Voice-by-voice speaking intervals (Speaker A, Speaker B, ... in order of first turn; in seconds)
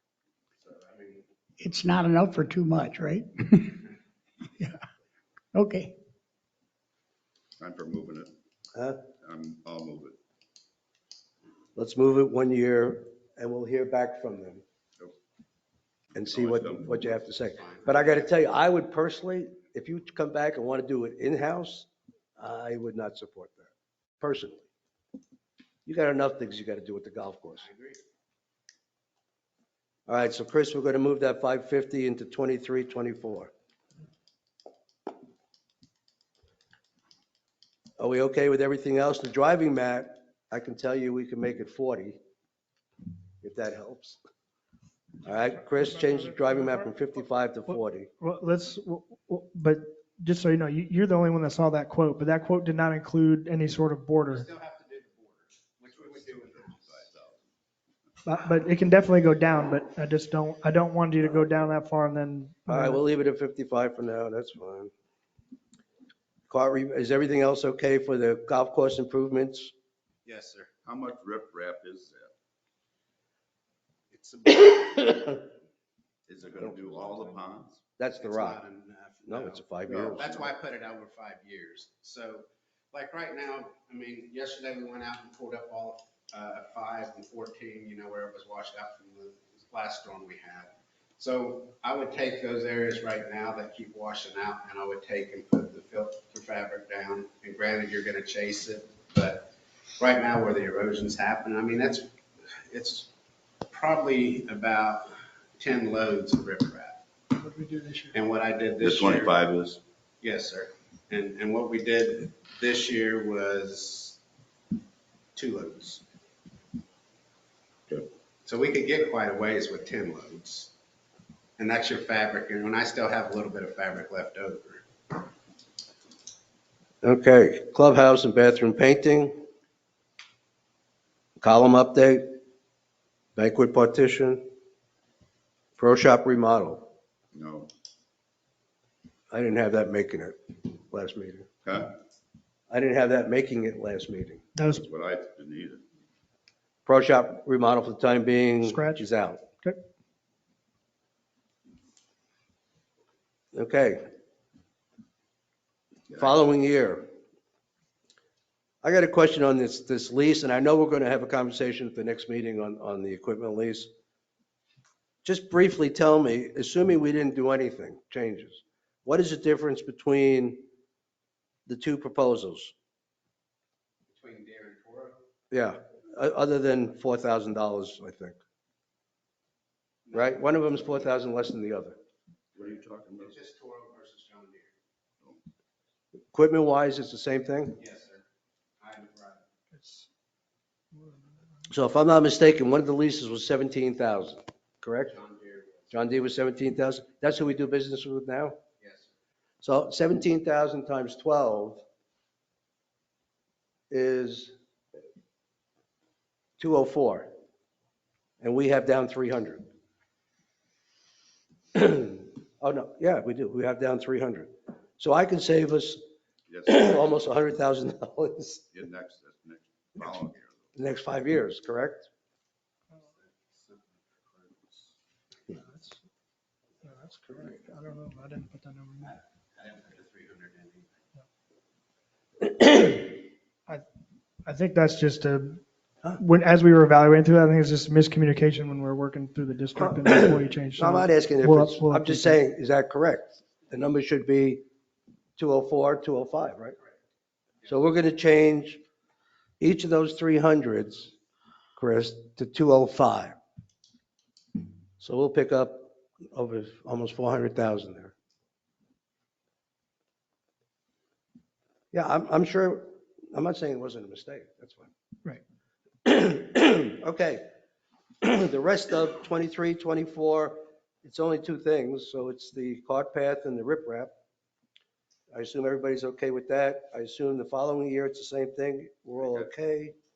Speaker A: 0.6-1.3, 17.5-18.3, 27.6-28.0, 54.3-57.0, 70.2-70.7, 74.1-75.5, 78.2-103.1, 103.7-107.0, 108.1-109.4, 110.2-114.2, 115.3-116.0, 118.5-120.7, 121.6-124.8, 174.1-175.2, 180.1-180.9, 182.6-184.7, 187.8-188.2, 188.8-189.5, 195.1-196.0, 198.8-199.1, 222.9-225.0, 229.6-231.1
Speaker B: 1.6-3.8, 5.5-6.0
Speaker C: 7.6-8.3, 9.2-10.2, 16.1-17.2, 55.9-57.5, 70.8-72.3, 76.3-77.8, 108.8-109.8, 137.3-137.7, 141.7-141.9, 144.7-145.8, 182.5-183.4, 216.5-217.1, 218.7-220.8, 279.2-279.5
Speaker D: 8.7-9.0, 11.8-14.6, 16.2-24.7, 25.9-27.6, 30.1-33.5, 38.0-42.2, 43.4-44.2, 45.2-48.1, 62.7-64.9, 66.5-69.7, 78.0-78.6, 79.3-80.5, 127.0-129.4, 131.4-132.4, 133.4-134.5, 135.8-136.9, 139.3-141.5, 142.7-144.4, 146.9-149.4, 153.5-154.0, 156.1-157.1, 158.8-163.9, 165.2-170.7, 171.7-172.7, 175.5-178.4, 180.1-182.0, 186.3-187.8, 191.7-195.1, 195.9-198.6, 199.6-201.8, 203.9-204.5, 206.6-207.3, 208.4-209.7, 211.8-216.0, 216.7-218.7, 220.8-222.1, 239.8-244.6, 245.4-246.8, 247.7-248.8, 249.6-251.1, 251.8-253.4, 255.0-258.1, 261.9-264.9, 266.1-267.5, 268.2-274.1, 275.3-279.9
Speaker E: 45.7-47.1, 47.7-54.5, 58.2-63.0, 107.3-108.2, 144.6-144.8, 148.6-149.1, 189.7-190.1, 190.9-191.3, 225.5-226.0, 226.8-229.2, 234.4-242.4